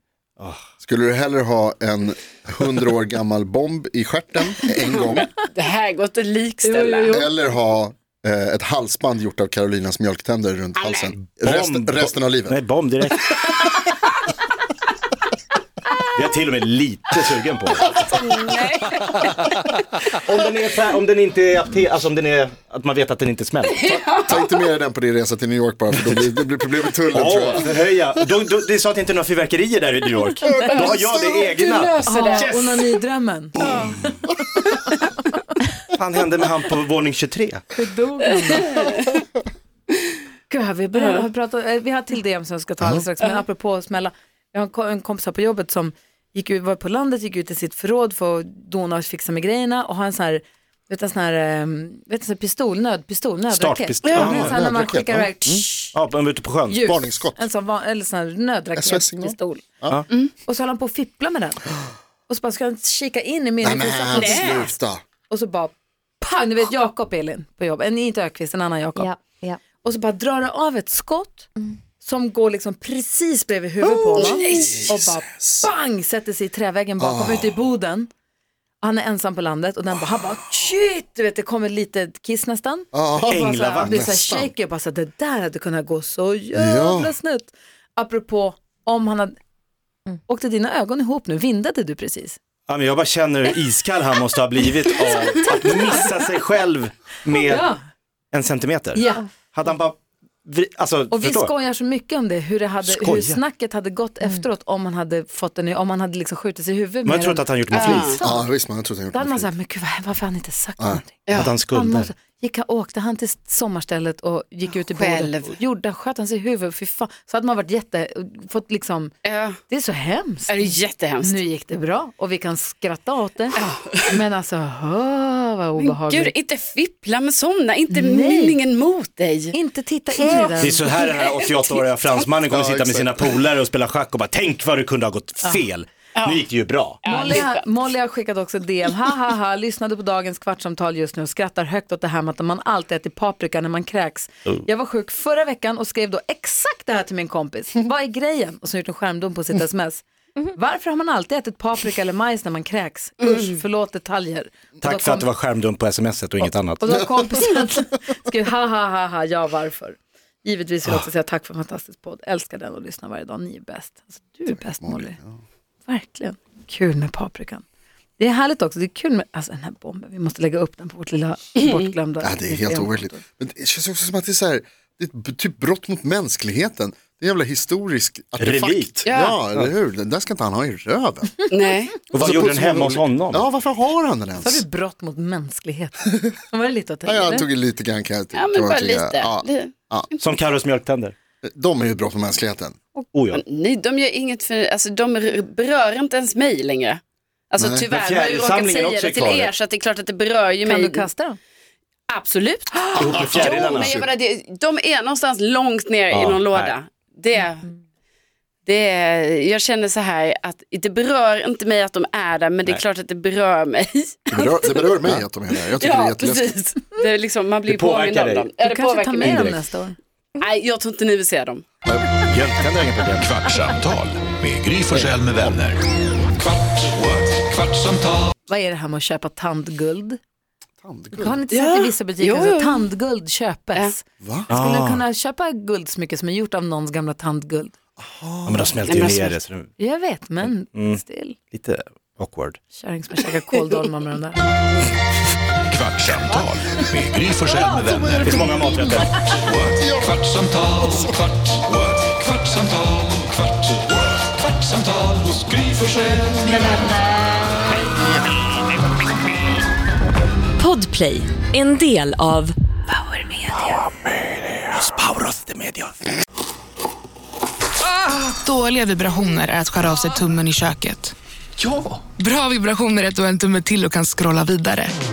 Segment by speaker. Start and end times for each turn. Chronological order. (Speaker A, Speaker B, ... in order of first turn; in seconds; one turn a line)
Speaker A: 0.8-5.3
Speaker B: 5.1-7.3
Speaker C: 6.7-7.3
Speaker A: 7.1-12.6
Speaker B: 10.8-11.1
Speaker D: 11.4-13.5
Speaker D: 16.1-18.1
Speaker B: 17.8-19.8
Speaker D: 20.2-23.8
Speaker B: 23.7-24.5
Speaker A: 23.8-27.7
Speaker D: 27.1-32.8
Speaker B: 30.5-32.5
Speaker C: 32.0-34.0
Speaker D: 35.9-37.7
Speaker C: 37.8-39.0
Speaker B: 38.5-39.0
Speaker C: 40.5-56.0
Speaker D: 53.5-54.6
Speaker B: 54.0-54.4
Speaker A: 54.1-55.6
Speaker D: 55.9-56.9
Speaker C: 56.7-59.8
Speaker A: 56.8-57.5
Speaker A: 58.8-60.0
Speaker C: 60.4-61.6
Speaker C: 62.3-64.7
Speaker A: 63.6-65.0
Speaker B: 64.1-64.7
Speaker C: 65.3-78.1
Speaker E: 69.0-69.6
Speaker A: 73.8-75.7
Speaker B: 74.2-74.9
Speaker A: 77.0-77.6
Speaker C: 78.8-89.3
Speaker A: 82.9-84.5
Speaker D: 83.3-84.1
Speaker A: 86.5-87.1
Speaker C: 90.3-92.4
Speaker D: 92.7-97.7
Speaker C: 97.3-97.8
Speaker D: 98.3-101.5
Speaker C: 99.0-99.3
Speaker C: 101.1-108.5
Speaker D: 102.8-103.4
Speaker D: 107.0-108.2
Speaker B: 107.7-108.2
Speaker A: 108.2-109.5
Speaker C: 109.1-119.2
Speaker B: 111.3-111.5
Speaker D: 111.3-112.1
Speaker B: 114.9-115.5
Speaker B: 119.2-119.6
Speaker C: 119.7-126.3
Speaker B: 120.5-121.4
Speaker B: 123.6-124.1
Speaker B: 125.8-129.6
Speaker C: 127.9-128.6
Speaker C: 129.5-130.8
Speaker B: 130.1-131.9
Speaker D: 130.6-137.3
Speaker A: 132.5-133.3
Speaker B: 136.2-136.4
Speaker B: 137.0-137.7
Speaker C: 137.1-155.3
Speaker B: 153.2-153.5
Speaker D: 154.8-157.0
Speaker C: 156.4-165.2
Speaker A: 164.5-165.4
Speaker C: 165.9-167.6
Speaker C: 168.2-173.2
Speaker A: 172.2-181.4
Speaker D: 178.4-179.0
Speaker B: 179.1-179.4
Speaker B: 181.5-182.1
Speaker D: 182.1-183.5
Speaker A: 182.1-184.6
Speaker C: 184.4-187.5
Speaker A: 187.1-190.1
Speaker B: 188.3-189.7
Speaker D: 190.2-191.2
Speaker A: 191.4-192.8
Speaker D: 193.1-193.4
Speaker B: 193.3-197.0
Speaker B: 197.5-201.1
Speaker A: 197.6-197.8
Speaker D: 197.9-199.5
Speaker C: 200.7-201.4
Speaker B: 202.1-207.7
Speaker D: 203.0-204.1
Speaker A: 203.5-203.9
Speaker D: 206.1-206.8
Speaker B: 208.7-214.9
Speaker A: 214.3-216.6
Speaker B: 215.5-219.6
Speaker D: 217.7-218.5
Speaker C: 218.6-220.0
Speaker B: 220.4-221.6
Speaker A: 221.8-222.2
Speaker D: 222.3-223.4
Speaker F: 223.2-225.8
Speaker F: 226.9-227.4
Speaker C: 228.5-230.2
Speaker A: 230.8-231.4
Speaker C: 231.1-237.7
Speaker B: 231.5-232.9
Speaker A: 234.2-234.5
Speaker D: 234.5-235.0
Speaker A: 238.0-238.9
Speaker D: 238.5-239.7
Speaker B: 238.9-239.4
Speaker C: 239.8-241.4
Speaker D: 240.4-241.0
Speaker D: 241.5-242.6
Speaker C: 242.7-244.4
Speaker F: 245.7-248.5
Speaker A: 247.5-251.1
Speaker D: 248.2-249.1
Speaker F: 249.4-249.8
Speaker F: 251.7-252.8
Speaker C: 256.5-257.4
Speaker E: 260.6-262.6
Speaker D: 265.0-265.8
Speaker G: 268.2-271.1
Speaker G: 271.7-275.0